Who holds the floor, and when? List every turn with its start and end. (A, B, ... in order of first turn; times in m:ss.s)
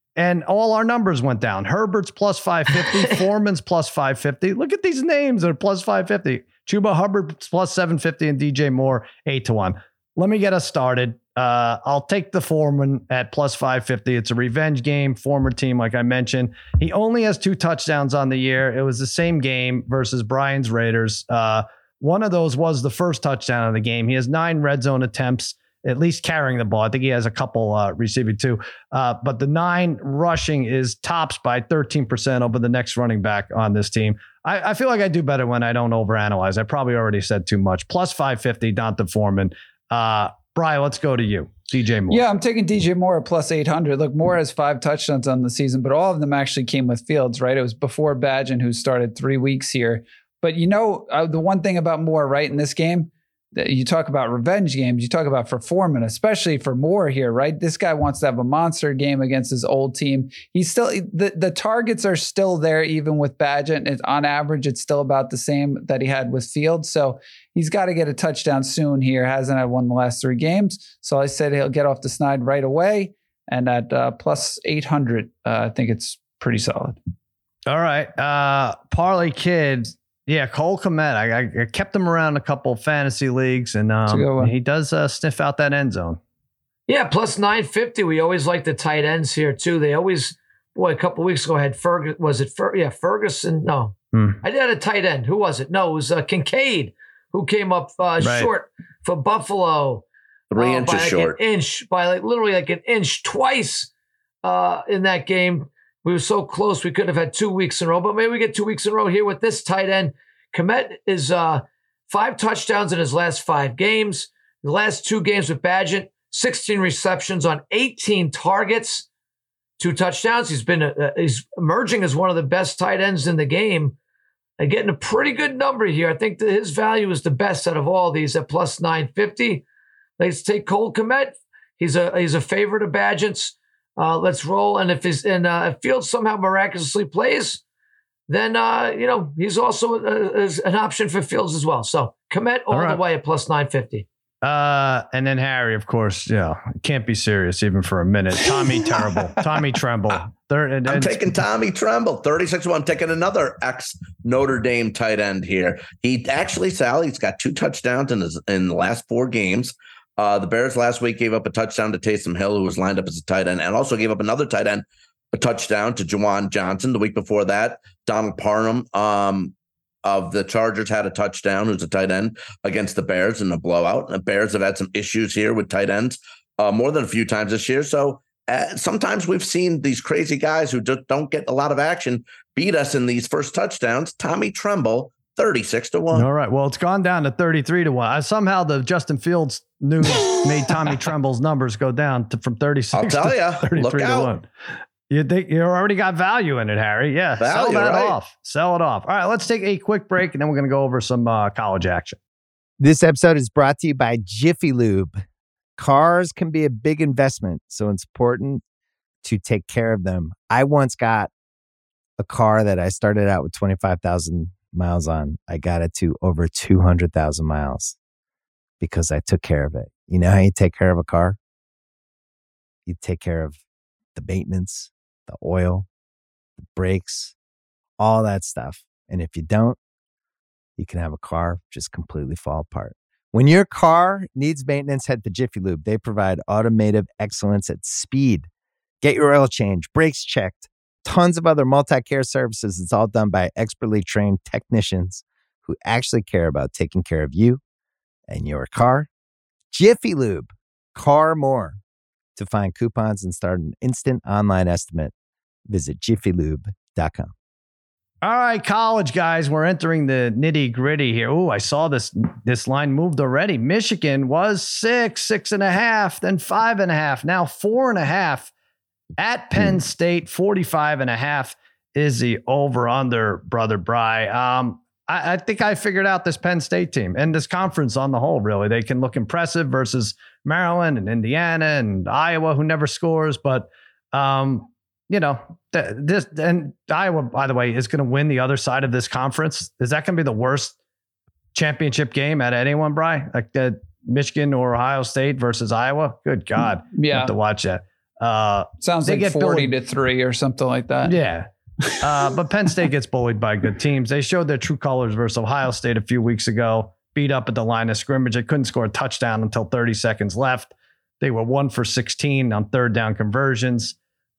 0:00.2-0:42.2 A
0:42.1-1:17.0 B
1:17.7-1:26.2 A
1:24.1-1:24.5 B
1:26.9-1:40.0 C
1:34.1-1:34.4 A
1:38.2-1:38.5 A
1:40.5-1:41.4 D
1:40.6-1:43.9 C
1:44.4-1:59.1 C
1:59.8-2:04.0 C
2:04.6-2:09.6 C
2:10.2-2:17.6 C
2:18.3-2:24.1 C
2:22.7-2:23.0 A
2:24.4-2:31.2 A
2:28.4-2:29.7 B
2:30.9-3:06.3 D
3:06.1-3:14.5 A
3:12.9-3:14.3 D
3:15.1-3:22.2 A
3:17.4-3:18.2 D
3:22.8-3:25.2 E
3:25.8-3:28.6 E
3:29.2-3:31.3 E
3:32.2-3:38.0 E
3:38.8-3:41.4 E
3:42.9-3:43.6 E
3:44.2-3:45.9 E
3:46.6-3:47.4 E
3:48.0-3:49.8 E
3:50.8-3:58.5 E
3:59.0-4:07.6 E
4:08.3-4:09.1 E
4:09.7-4:11.8 E
4:12.4-4:15.1 E
4:15.7-4:17.3 E
4:18.2-4:28.5 A
4:29.2-4:50.7 A
4:51.5-4:59.7 A
4:56.9-4:57.3 B
4:58.8-5:01.2 B
5:01.0-5:14.0 A